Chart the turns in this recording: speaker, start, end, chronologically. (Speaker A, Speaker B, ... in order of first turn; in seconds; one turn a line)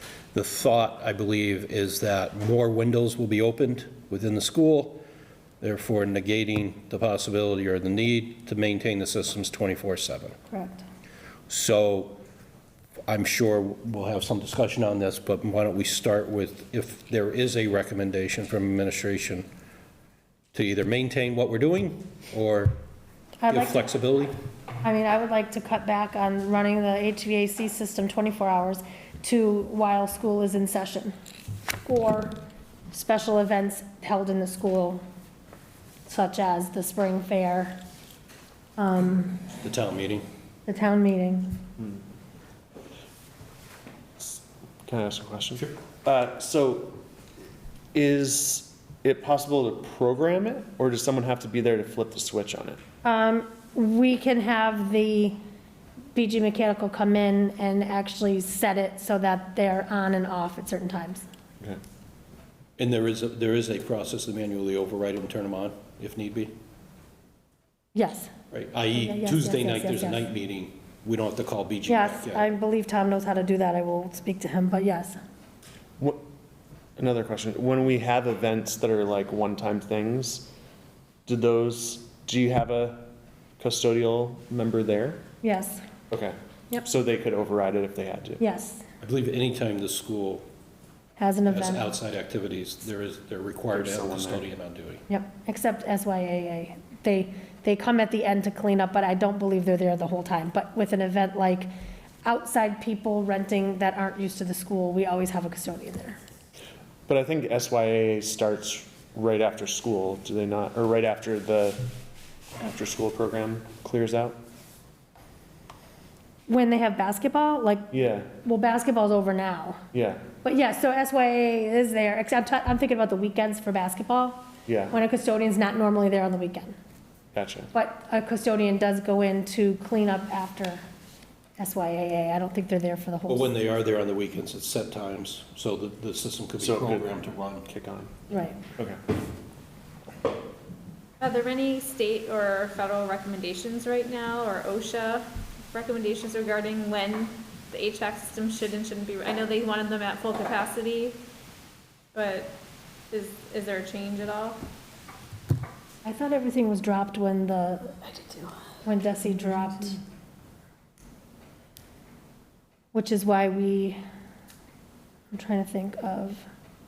Speaker A: 0.3-5.0
Speaker A: 5.6-10.3
Speaker B: 10.5-10.8
Speaker A: 11.5-12.2
Speaker A: 13.1-19.4
Speaker A: 20.5-22.7
Speaker B: 23.4-23.9
Speaker A: 23.5-24.3
Speaker B: 24.8-31.1
Speaker B: 31.8-32.4
Speaker B: 32.9-35.0
Speaker B: 36.1-37.8
Speaker B: 38.8-39.4
Speaker A: 39.5-40.2
Speaker B: 40.7-41.6
Speaker C: 44.2-47.0
Speaker C: 47.9-52.8
Speaker B: 53.0-55.4
Speaker B: 56.1-61.2
Speaker A: 62.8-66.5
Speaker B: 67.9-68.3
Speaker A: 68.5-72.5
Speaker B: 69.0-70.2
Speaker B: 71.9-75.2
Speaker C: 76.0-76.2
Speaker C: 77.0-80.5
Speaker C: 81.2-85.2
Speaker B: 85.4-85.8
Speaker C: 86.1-88.4
Speaker B: 88.4-88.8
Speaker A: 89.0-90.4
Speaker B: 91.2-91.8
Speaker A: 91.5-95.0
Speaker C: 93.7-94.5
Speaker B: 95.1-101.7
Speaker B: 102.2-106.2
Speaker C: 107.1-111.9
Speaker C: 112.6-114.4
Speaker B: 116.5-119.8
Speaker C: 117.9-118.3
Speaker C: 119.9-120.2
Speaker B: 120.4-126.8
Speaker C: 124.7-125.0
Speaker C: 127.3-127.7
Speaker B: 127.7-130.8
Speaker B: 131.6-133.5
Speaker A: 133.3-137.7
Speaker C: 136.6-139.0
Speaker B: 138.3-138.6
Speaker D: 141.2-151.2
Speaker D: 152.1-152.5
Speaker D: 153.1-154.6
Speaker B: 156.0-160.0
Speaker B: 162.9-164.0
Speaker B: 165.3-166.4